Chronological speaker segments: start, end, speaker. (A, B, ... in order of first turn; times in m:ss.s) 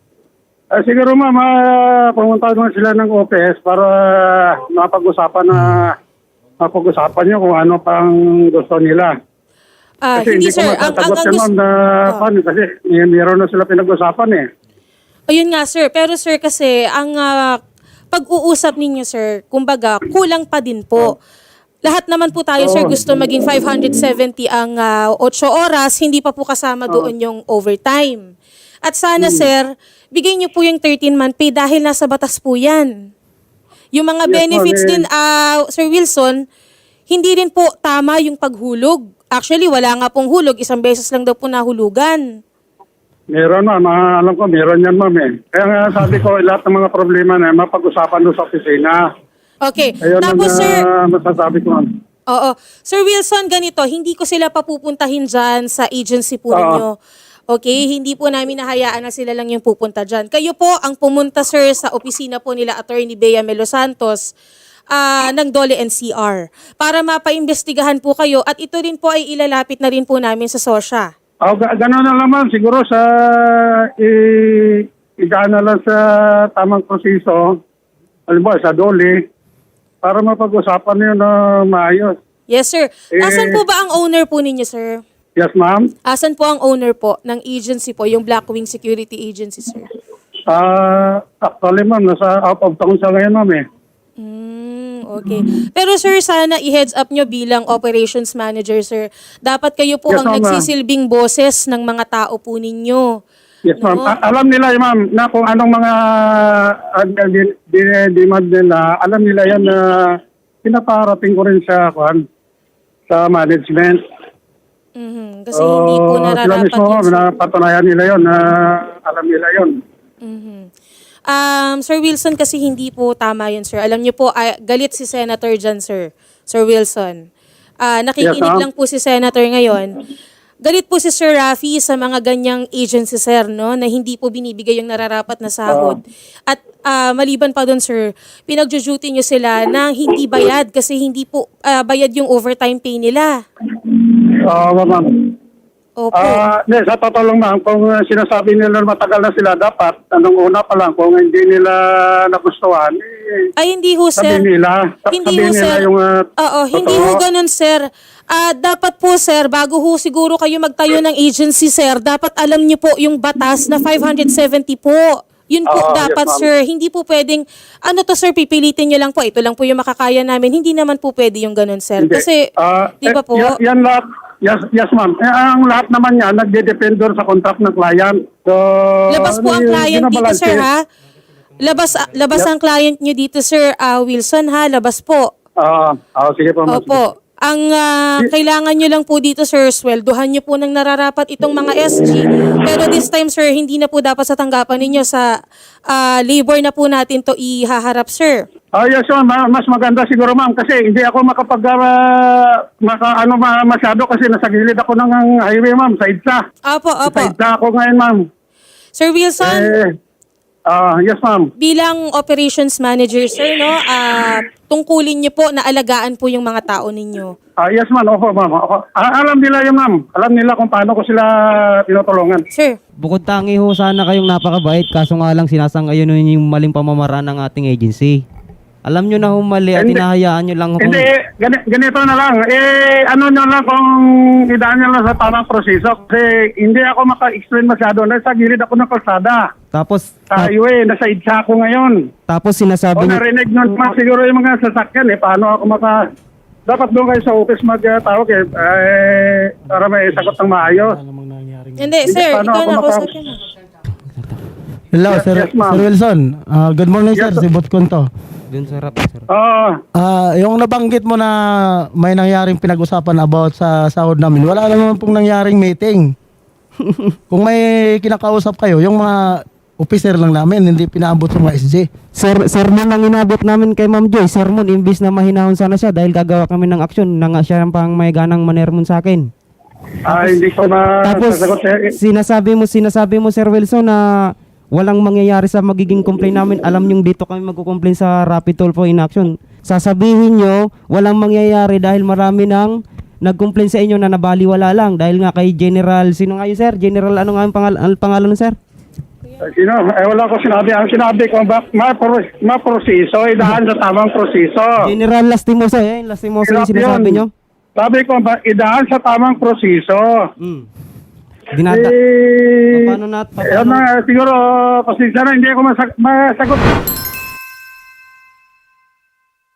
0:00.7-0:06.0 A
0:06.6-0:09.1 A
0:10.0-0:11.5 B
0:10.1-0:14.5 A
0:15.3-0:17.6 B
0:18.1-0:21.2 B
0:21.8-0:28.3 B
0:22.6-0:23.1 A
0:28.8-0:33.1 B
0:29.2-0:29.5 A
0:33.9-0:36.4 B
0:34.3-0:35.0 A
0:37.1-0:42.2 B
0:43.3-0:49.0 A
0:49.6-0:50.8 B
0:50.0-0:51.9 A
0:52.3-0:57.0 B
0:56.5-0:56.8 A
0:57.5-1:04.3 B
1:04.9-1:11.1 B
1:11.4-1:17.6 A
1:18.3-1:19.2 A
1:20.0-1:22.2 A
1:22.5-1:25.0 B
1:23.1-1:23.6 A
1:25.4-1:25.9 A
1:26.0-1:29.9 B
1:30.5-1:33.6 A
1:34.2-1:43.1 B
1:40.1-1:40.7 A
1:43.6-1:52.2 A
1:43.8-1:44.2 B
1:53.1-1:54.0 A
1:55.0-1:57.2 B
1:55.5-1:59.8 A
2:00.2-2:00.7 B
2:01.3-2:07.2 B
2:07.8-2:10.0 B
2:08.2-2:08.6 A
2:10.6-2:23.4 B
2:15.7-2:16.0 A
2:23.7-2:25.4 A
2:26.0-2:26.4 B
2:26.1-2:33.5 A
2:33.6-2:34.4 B
2:34.2-2:37.2 A
2:35.1-2:35.9 B
2:36.4-2:52.5 B
2:45.7-2:46.5 A
2:52.0-3:00.7 A
2:53.0-2:53.5 B
2:59.1-3:00.8 B
3:01.6-3:05.3 B
3:05.6-3:07.0 A
3:06.7-3:15.3 B
3:15.9-3:18.4 B
3:18.7-3:26.4 A
3:26.7-3:27.3 B
3:27.0-3:28.3 A
3:28.9-3:29.7 B
3:29.4-3:30.0 A
3:30.7-3:31.5 A
3:31.6-3:37.3 B
3:37.6-3:42.4 A
3:42.5-3:42.8 B
3:43.0-3:48.2 C
3:48.8-3:51.0 C
3:49.8-3:50.0 A
3:50.8-3:59.5 A
3:59.7-4:00.5 C
4:00.3-4:02.0 A
4:02.3-4:03.2 C
4:03.0-4:06.0 A
4:06.7-4:11.0 A
4:09.8-4:11.9 D
4:11.8-4:13.4 B
4:12.0-4:13.1 A
4:14.9-4:18.1 D
4:15.1-4:15.8 A
4:17.1-4:17.4 A
4:18.5-4:19.3 C
4:19.3-4:19.8 A
4:19.9-4:26.1 D
4:27.3-4:31.9 D
4:32.1-4:39.3 C
4:40.0-4:42.0 A
4:40.1-4:40.4 C
4:41.0-4:58.6 C
4:59.4-5:04.9 A
5:04.8-5:07.3 C
5:06.4-5:07.2 A
5:07.8-5:10.2 A
5:10.4-5:10.7 C
5:11.5-5:11.9 C
5:11.7-5:16.6 A
5:12.7-5:13.8 C